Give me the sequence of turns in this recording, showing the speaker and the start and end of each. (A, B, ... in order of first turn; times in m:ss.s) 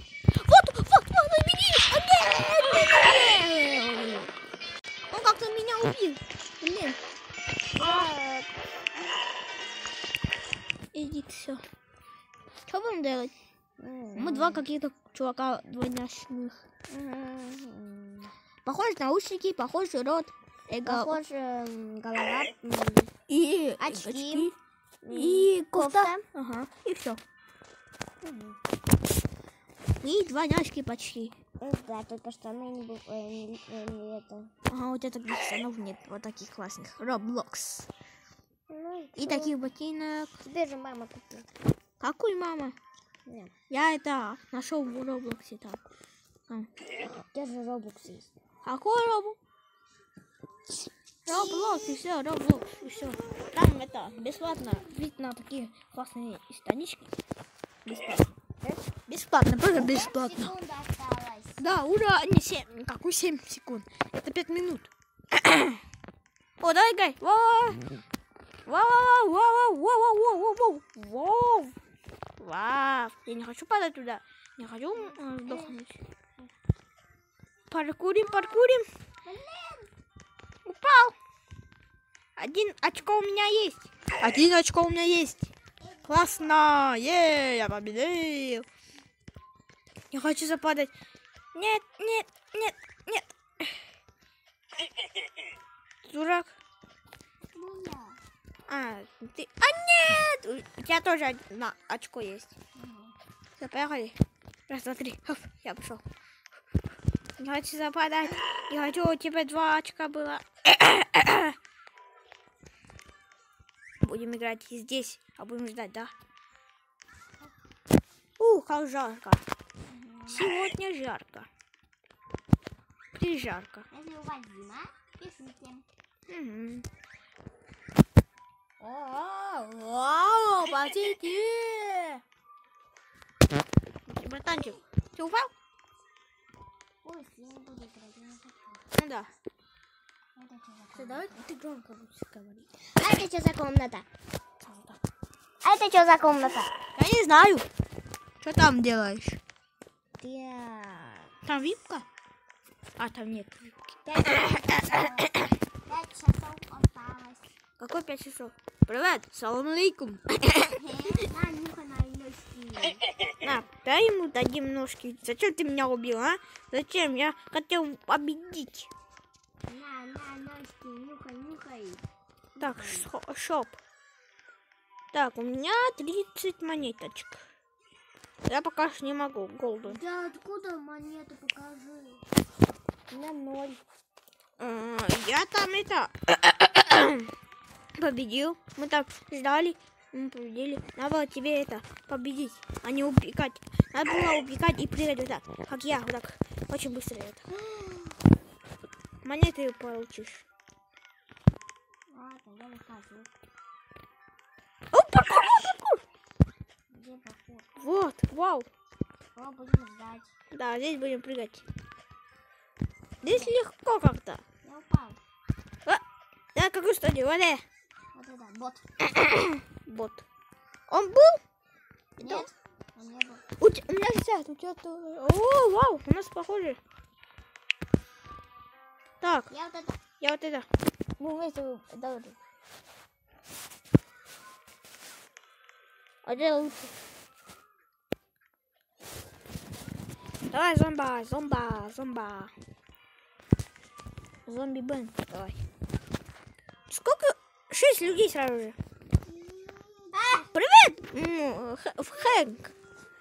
0:00.3-0:04.3 A
0:05.1-0:07.0 A
0:07.8-0:08.5 B
0:07.8-0:08.1 A
0:10.9-0:11.6 A
0:12.7-0:13.3 A
0:13.8-0:14.6 B
0:14.2-0:16.6 A
0:16.9-0:18.3 B
0:18.6-0:21.2 A
0:20.8-0:23.1 B
0:23.3-0:24.5 A
0:23.8-0:26.2 B
0:25.1-0:27.2 A
0:28.2-0:28.6 B
0:30.0-0:31.4 A
0:31.6-0:34.5 B
0:34.7-0:37.9 A
0:38.7-0:39.6 B
0:39.2-0:40.3 A
0:40.4-0:41.5 B
0:42.0-0:42.8 A
0:43.3-0:43.5 B
0:43.7-0:45.8 A
0:47.0-0:48.3 B
0:48.6-0:49.4 A
0:51.2-0:57.1 A
0:57.8-0:58.3 A
0:59.0-1:00.5 A
0:59.8-1:01.6 B
1:01.6-1:05.8 A
1:06.6-1:07.8 A
1:08.7-1:11.8 A
1:12.4-1:16.0 A
1:14.9-1:15.8 B
1:17.7-1:18.9 A
1:18.2-1:18.7 B
1:19.2-1:19.9 B
1:20.7-1:21.2 A
1:22.4-1:25.5 A
1:26.0-1:28.7 A
1:30.1-1:30.9 A
1:31.5-1:33.7 A
1:36.0-1:36.5 A
1:37.5-1:38.2 B
1:38.7-1:42.6 A
1:42.8-1:43.2 B
1:43.6-1:44.2 A
1:44.7-1:46.0 A
1:47.4-1:51.6 A
1:54.0-1:56.1 A
1:58.4-1:59.4 A
1:59.9-2:00.6 B
2:00.3-2:01.5 A
2:03.2-2:03.9 A
2:03.9-2:05.9 B
2:06.3-2:06.9 A
2:08.8-2:12.2 A
2:14.1-2:15.5 A
2:17.0-2:18.8 B
2:19.0-2:19.3 A
2:20.4-2:21.4 B
2:20.9-2:22.7 A
2:23.0-2:24.1 B
2:24.6-2:25.0 A
2:25.6-2:26.7 B
2:27.0-2:27.7 A
2:28.4-2:29.4 A
2:30.2-2:31.3 B
2:31.4-2:32.1 A
2:33.0-2:35.4 A
2:34.1-2:37.5 B
2:37.8-2:40.8 A
2:40.8-2:43.0 B
2:43.4-2:48.9 A
2:49.6-2:52.0 B
2:52.6-2:53.1 B
2:52.6-2:53.8 A
2:55.1-2:57.4 A
2:58.4-3:00.0 A
2:59.8-3:02.2 B
3:03.1-3:03.8 B
3:04.6-3:07.3 A
3:08.0-3:17.4 A
3:17.6-3:18.2 B
3:19.2-3:20.5 A
3:22.1-3:23.3 B
3:24.9-3:26.0 A
3:26.9-3:27.7 B
3:27.8-3:28.7 A
3:29.4-3:30.3 B
3:30.5-3:31.6 A
3:33.2-3:34.4 A
3:33.3-3:33.6 B
3:34.6-3:35.2 B
3:36.6-3:37.6 A
3:38.1-3:38.8 B
3:39.0-3:40.2 A
3:40.9-3:41.4 A
3:42.2-3:43.4 B
3:42.2-3:42.5 A
3:43.6-3:46.8 A
3:49.2-3:49.5 A
3:49.5-3:50.0 B
3:50.2-3:50.7 A
3:51.2-3:52.4 A
3:56.2-3:56.9 A
4:00.5-4:02.5 A
4:04.5-4:05.6 A
4:06.9-4:08.8 A
4:09.9-4:10.5 B
4:10.3-4:12.7 A